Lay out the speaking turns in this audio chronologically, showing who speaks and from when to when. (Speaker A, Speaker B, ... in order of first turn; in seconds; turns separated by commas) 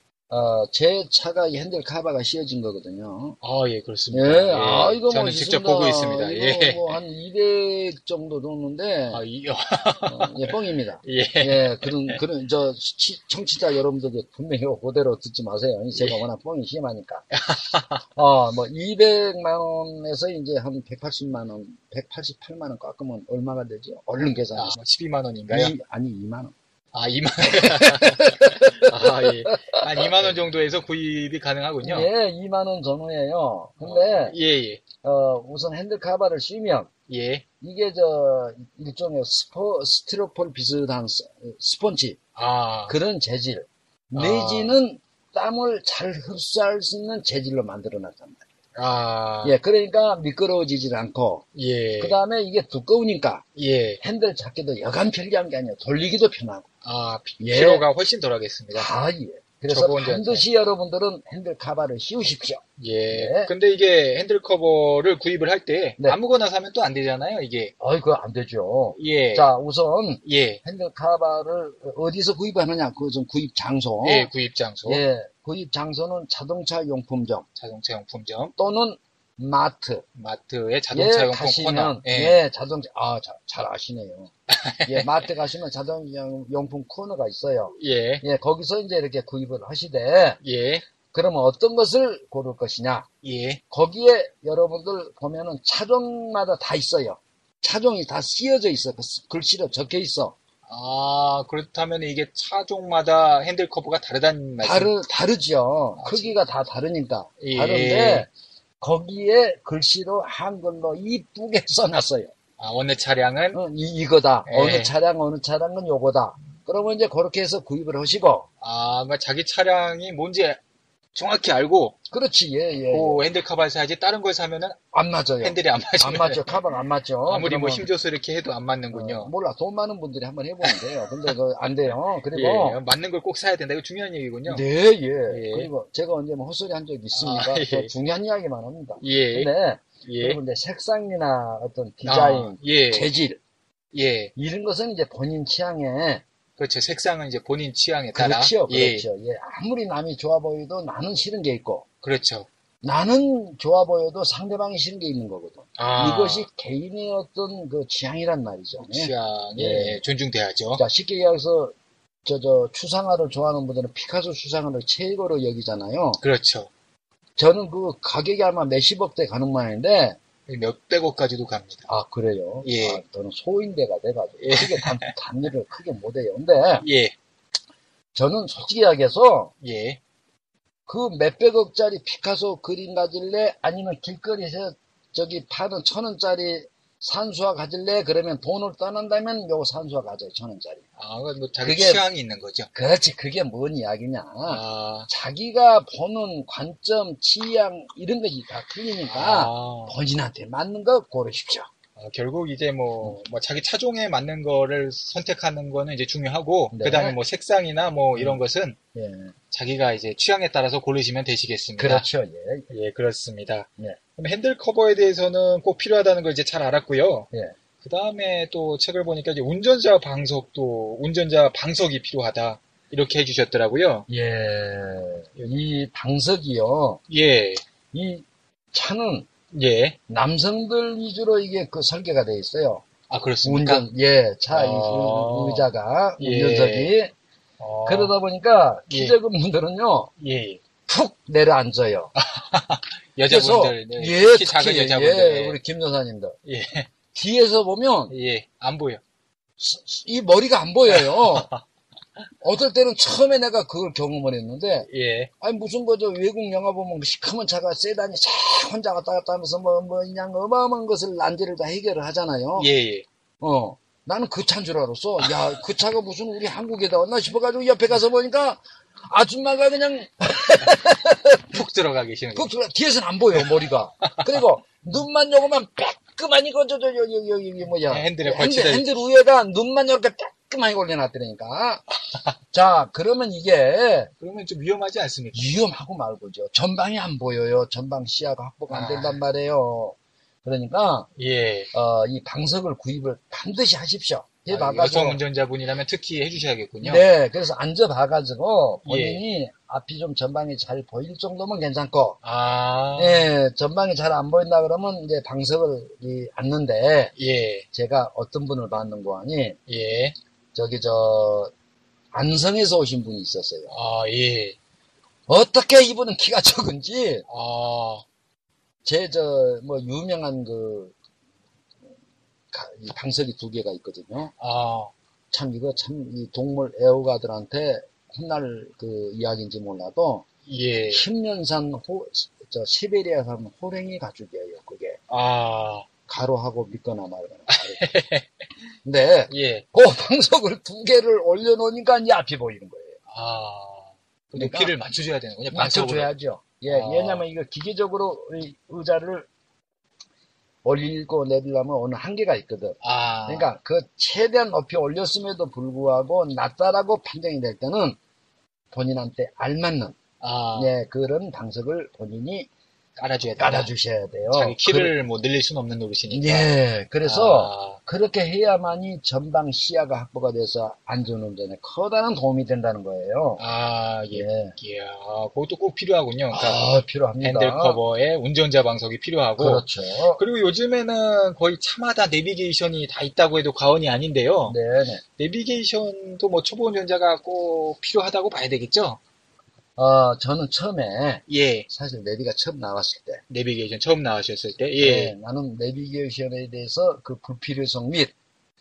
Speaker A: 0.3-3.4, Speaker B: 3.4-6.9, Speaker A: 4.1-9.2, Speaker B: 9.1-10.5, Speaker A: 10.1-17.2, Speaker B: 11.0-12.2, Speaker B: 15.9-16.2, Speaker B: 17.3-18.0, Speaker A: 18.1-24.8, Speaker B: 24.6-25.7, Speaker A: 25.5-26.5, Speaker B: 26.9-32.1, Speaker A: 27.4-30.3, Speaker A: 31.8-34.4, Speaker B: 33.8-34.8, Speaker A: 35.0-36.9, Speaker B: 37.1-37.4, Speaker A: 37.6-42.2, Speaker B: 42.4-43.0, Speaker A: 42.9-48.4, Speaker B: 44.1-44.8, Speaker B: 48.8-49.5, Speaker A: 49.4-51.4, Speaker B: 51.5-52.2, Speaker A: 52.0-53.4, Speaker B: 53.5-54.0, Speaker A: 54.0-56.7, Speaker B: 56.8-58.9, Speaker A: 57.4-57.9, Speaker A: 58.7-63.5, Speaker B: 59.7-60.5, Speaker B: 62.8-67.7, Speaker A: 67.8-74.3, Speaker B: 69.0-69.5, Speaker B: 70.2-70.6, Speaker B: 74.0-75.0, Speaker A: 74.8-77.4, Speaker B: 77.5-78.5, Speaker A: 78.6-80.0, Speaker B: 80.2-82.4, Speaker A: 80.9-84.3, Speaker B: 84.5-85.1, Speaker A: 84.8-90.4, Speaker B: 87.8-88.2, Speaker B: 90.4-90.8, Speaker A: 91.1-93.1, Speaker B: 93.2-93.6, Speaker A: 93.7-100.3, Speaker B: 100.7-104.9, Speaker A: 104.6-108.3, Speaker B: 106.0-106.3, Speaker B: 107.4-108.3, Speaker A: 108.8-112.3, Speaker B: 112.6-113.6, Speaker A: 113.5-118.5, Speaker B: 114.5-114.9, Speaker B: 118.6-120.6, Speaker B: 121.1-122.0, Speaker A: 122.1-123.2, Speaker B: 122.8-124.8, Speaker A: 124.9-127.9, Speaker B: 125.4-126.5, Speaker B: 127.3-129.3, Speaker A: 128.9-132.8, Speaker B: 130.6-131.3, Speaker B: 132.3-134.6, Speaker A: 134.5-143.4, Speaker B: 135.3-135.7, Speaker B: 137.1-137.9, Speaker B: 139.0-139.5, Speaker B: 140.0-140.4, Speaker B: 142.0-143.1, Speaker B: 143.9-144.3, Speaker A: 144.3-146.2, Speaker B: 146.6-149.1, Speaker A: 148.1-151.8, Speaker B: 152.0-152.5, Speaker A: 152.8-160.0, Speaker B: 155.8-156.5, Speaker B: 158.8-160.8, Speaker A: 160.8-161.7, Speaker A: 162.2-166.2, Speaker B: 166.2-166.7, Speaker A: 167.3-170.2, Speaker B: 170.5-171.9, Speaker A: 171.9-176.8, Speaker B: 172.6-173.0, Speaker B: 174.4-175.1, Speaker B: 176.8-177.1, Speaker A: 178.1-179.5, Speaker B: 179.6-180.0, Speaker A: 180.9-190.8, Speaker B: 191.0-192.7, Speaker A: 191.6-192.0, Speaker A: 192.7-201.7, Speaker B: 194.4-195.1, Speaker B: 199.1-199.9, Speaker B: 202.0-208.8, Speaker A: 206.7-207.2, Speaker A: 208.1-208.4, Speaker A: 208.9-209.3, Speaker B: 209.5-212.1, Speaker A: 211.8-212.7, Speaker B: 212.7-217.3, Speaker B: 217.8-224.1, Speaker A: 224.1-227.0, Speaker B: 227.1-227.6, Speaker A: 227.9-229.3, Speaker B: 229.5-230.0, Speaker A: 230.1-232.8, Speaker B: 233.1-233.9, Speaker A: 233.4-237.1, Speaker B: 234.5-235.7, Speaker B: 236.2-236.9, Speaker B: 237.6-238.2, Speaker A: 237.8-240.1, Speaker B: 238.9-239.2, Speaker B: 240.2-240.6, Speaker A: 240.9-242.1, Speaker B: 242.2-245.6, Speaker A: 243.3-246.4, Speaker B: 246.4-246.9, Speaker A: 247.1-248.1, Speaker B: 248.1-249.0, Speaker A: 249.6-251.5, Speaker B: 250.9-251.6, Speaker A: 252.4-254.9, Speaker B: 254.9-255.3, Speaker A: 255.4-262.7, Speaker B: 262.6-263.1, Speaker A: 263.4-271.6, Speaker B: 271.5-272.5, Speaker A: 272.3-281.8, Speaker B: 273.3-274.3, Speaker B: 277.9-278.8, Speaker A: 282.5-284.1, Speaker B: 284.2-285.5, Speaker A: 285.3-291.1, Speaker B: 288.7-289.2, Speaker B: 291.2-291.7, Speaker A: 291.7-295.2, Speaker B: 294.5-297.1, Speaker A: 296.8-302.2, Speaker B: 298.8-299.2, Speaker B: 302.2-303.3, Speaker A: 302.9-307.1, Speaker B: 307.2-307.6, Speaker A: 307.7-309.6, Speaker B: 309.7-310.1, Speaker A: 310.5-311.5, Speaker A: 312.1-313.7, Speaker B: 313.7-314.6, Speaker A: 315.3-317.2, Speaker B: 317.3-318.0, Speaker A: 318.8-320.9, Speaker A: 322.5-324.3, Speaker B: 324.4-324.9, Speaker A: 325.3-330.2, Speaker B: 330.4-331.0, Speaker A: 330.9-335.0, Speaker B: 335.1-335.9, Speaker A: 336.1-337.8, Speaker B: 337.5-338.3, Speaker A: 338.8-342.9, Speaker B: 339.3-339.6, Speaker B: 343.1-346.1, Speaker A: 344.3-344.7, Speaker A: 345.5-349.3, Speaker B: 346.6-347.2, Speaker A: 350.6-358.0, Speaker B: 352.8-353.5, Speaker A: 358.7-360.0, Speaker B: 360.2-360.7, Speaker A: 360.5-362.5, Speaker B: 363.0-363.7, Speaker A: 363.4-364.9, Speaker B: 364.3-366.5, Speaker A: 366.1-373.4, Speaker B: 367.0-367.8, Speaker B: 373.4-376.6, Speaker A: 374.1-374.5, Speaker A: 376.3-377.8, Speaker B: 377.2-379.6, Speaker A: 379.4-380.2, Speaker B: 380.2-384.6, Speaker A: 384.4-385.0, Speaker B: 385.2-389.0, Speaker A: 389.8-393.2, Speaker B: 391.3-391.6, Speaker B: 393.3-395.1, Speaker A: 394.8-398.1